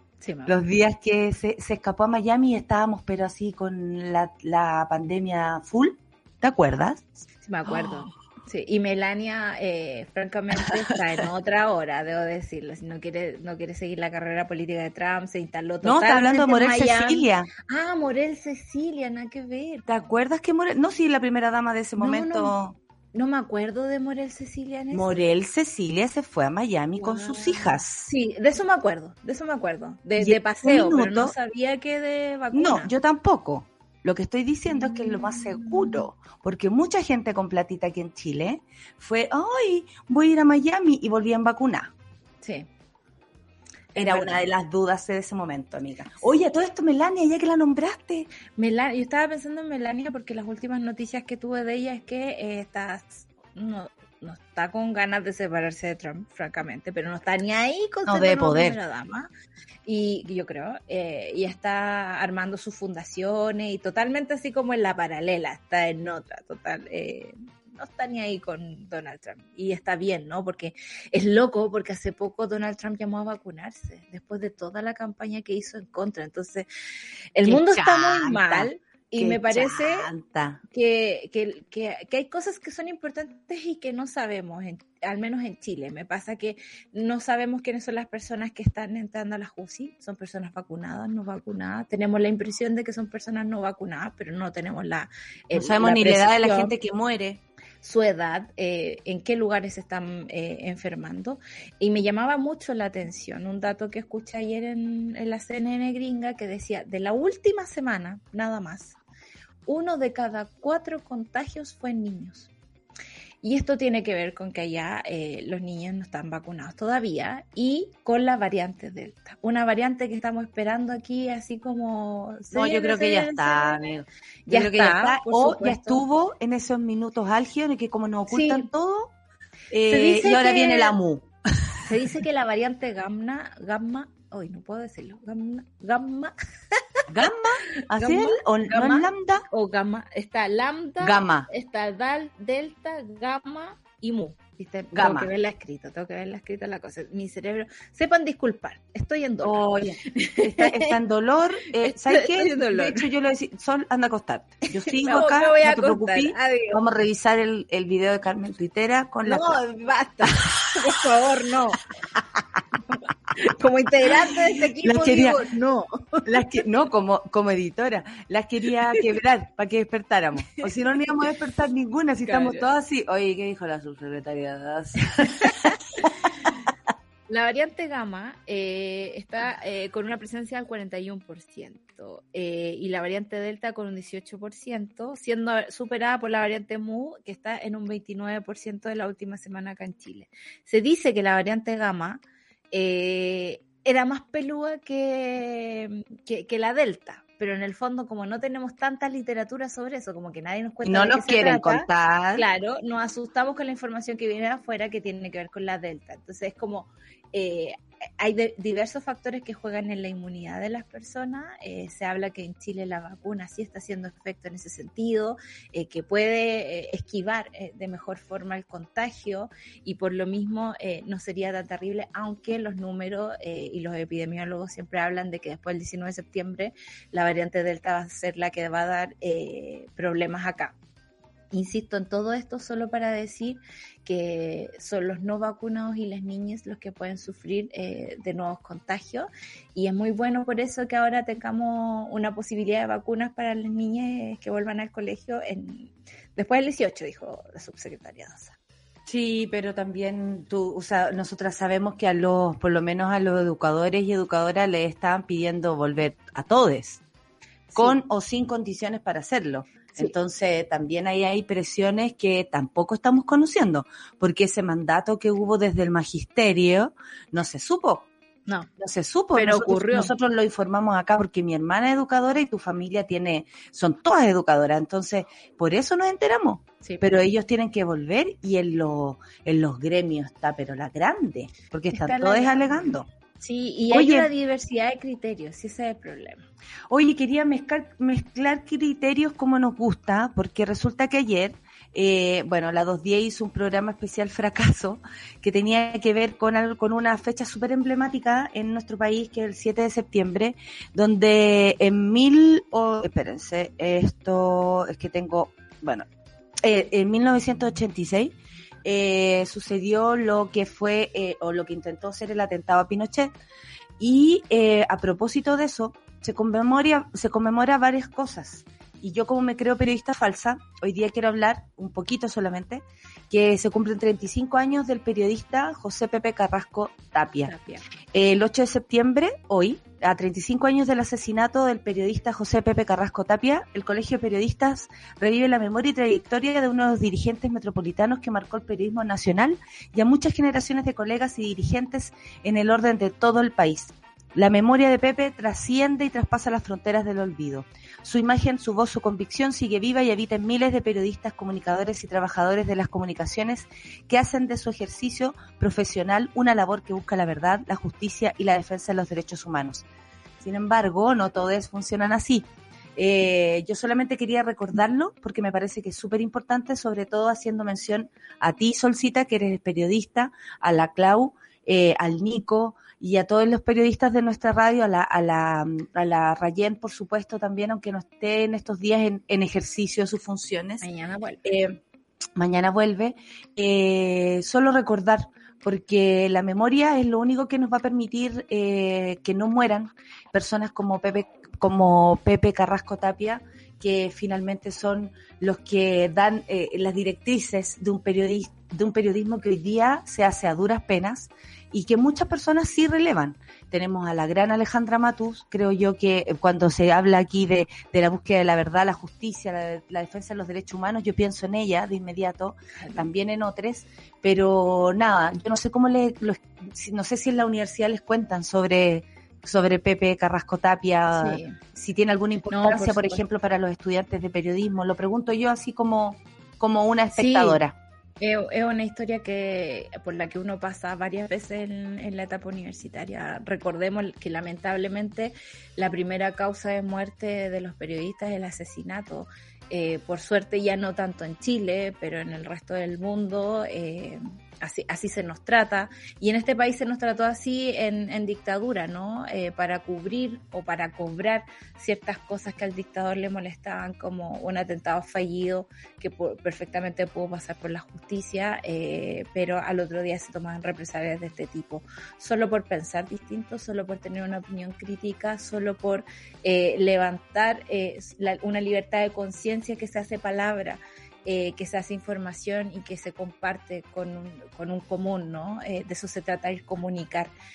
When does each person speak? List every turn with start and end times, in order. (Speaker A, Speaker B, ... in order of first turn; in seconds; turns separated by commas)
Speaker A: 0.2-0.5, Speaker B: 0.5-7.2, Speaker A: 7.4-19.9, Speaker B: 7.7-7.9, Speaker B: 15.8-17.5, Speaker B: 19.9-22.8, Speaker A: 22.0-22.5, Speaker A: 23.1-25.1, Speaker B: 24.9-28.1, Speaker A: 27.0-32.9, Speaker B: 30.2-31.3, Speaker B: 32.5-41.9, Speaker A: 35.0-35.6, Speaker A: 42.4-42.7, Speaker A: 43.9-44.4, Speaker B: 44.0-48.3, Speaker A: 48.6-59.3, Speaker B: 58.1-58.8, Speaker A: 59.9-76.7, Speaker A: 77.3-80.1, Speaker B: 77.4-80.6, Speaker A: 80.7-96.7, Speaker B: 95.5-97.4, Speaker A: 97.8-109.0, Speaker A: 109.7-112.5, Speaker A: 113.4-123.8, Speaker B: 122.5-129.1, Speaker A: 124.5-126.0, Speaker A: 128.3-128.7, Speaker B: 129.7-131.7, Speaker A: 129.9-130.9, Speaker A: 131.8-136.3, Speaker B: 137.1-139.4, Speaker A: 137.8-150.9, Speaker B: 141.0-141.5, Speaker B: 144.9-145.3, Speaker B: 149.4-159.6, Speaker A: 151.7-153.1, Speaker A: 154.7-156.8, Speaker A: 159.2-161.8, Speaker B: 162.1-162.6, Speaker A: 163.3-166.4, Speaker B: 164.8-165.5, Speaker B: 166.2-176.1, Speaker A: 172.2-172.7, Speaker A: 177.3-230.8, Speaker B: 200.8-202.4, Speaker A: 231.5-248.6, Speaker B: 249.1-257.0, Speaker A: 257.7-258.0, Speaker B: 257.7-268.1, Speaker B: 268.8-283.1, Speaker A: 269.3-270.1, Speaker A: 281.9-282.9, Speaker A: 283.4-286.4, Speaker B: 283.9-284.3, Speaker B: 286.9-306.1, Speaker B: 306.6-313.3, Speaker B: 314.0-327.5, Speaker A: 327.4-327.8, Speaker B: 328.1-359.9, Speaker B: 360.4-380.9, Speaker A: 380.8-381.4, Speaker B: 381.4-381.8, Speaker B: 382.4-427.7, Speaker A: 412.8-413.1, Speaker A: 421.1-421.6, Speaker A: 422.5-423.2, Speaker A: 427.1-427.6, Speaker A: 428.2-477.3